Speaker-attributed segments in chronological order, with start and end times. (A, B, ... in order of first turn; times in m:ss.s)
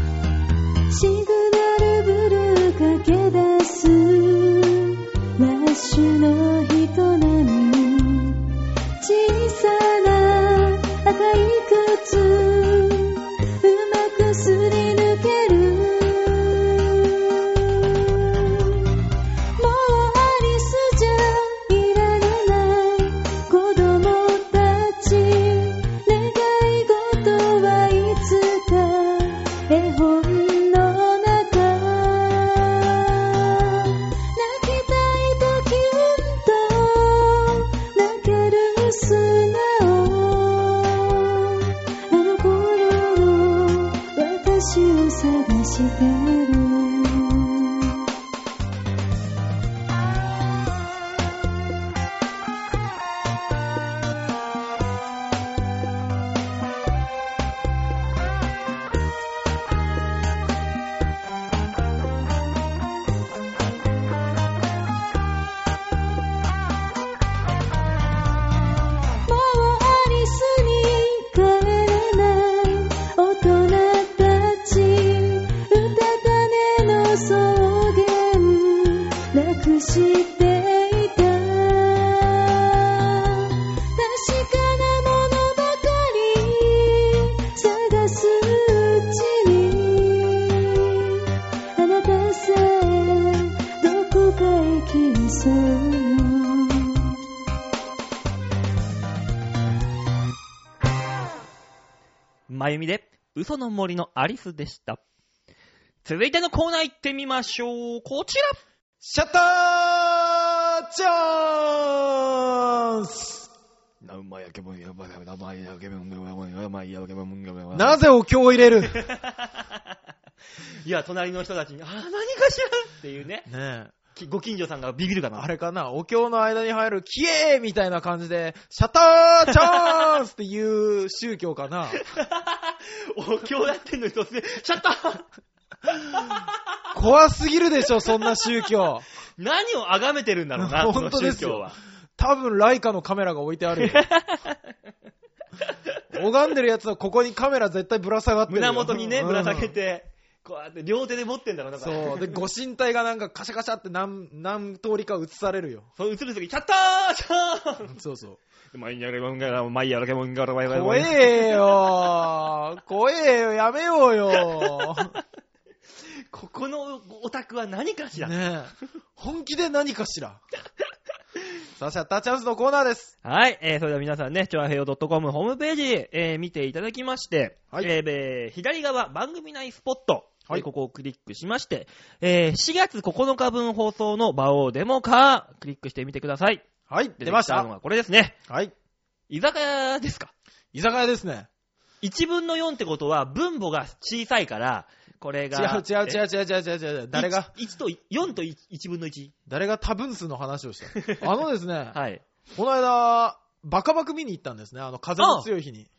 0:00.9-0:19.0 A
0:19.6-0:48.0 A
1:09.2-1:31.2 A
1:31.7-1:37.1 A
1:42.5-1:45.0 B
1:46.0-1:48.6 B
1:49.0-1:53.5 C
1:54.0-1:58.0 B
1:57.7-1:59.0 C
1:58.9-1:59.7 B
2:00.8-2:03.5 B
2:03.5-2:03.9 C
2:04.1-2:05.5 B
2:05.4-2:12.0 C
2:09.6-2:09.9 B
2:12.0-2:15.3 B
2:16.1-2:16.5 B
2:16.9-2:19.0 C
2:19.4-2:21.7 B
2:20.6-2:24.1 C
2:23.8-2:24.6 B
2:26.1-2:29.7 C
2:28.5-2:32.4 B
2:31.8-2:35.9 C
2:36.0-2:37.9 B
2:37.9-2:38.4 C
2:38.7-2:41.8 B
2:40.6-2:45.2 C
2:44.6-2:44.8 B
2:46.3-2:48.4 B
2:48.2-2:50.4 C
2:51.8-2:53.1 C
2:53.2-3:06.6 B
3:06.9-3:07.7 C
3:07.2-3:08.4 B
3:08.5-3:08.7 C
3:09.3-3:10.3 B
3:10.7-3:11.5 C
3:12.0-3:16.2 B
3:15.5-3:17.5 C
3:17.1-3:19.3 B
3:19.5-3:22.0 C
3:20.9-3:21.2 B
3:21.9-3:22.2 B
3:22.5-3:25.9 C
3:25.2-3:25.5 B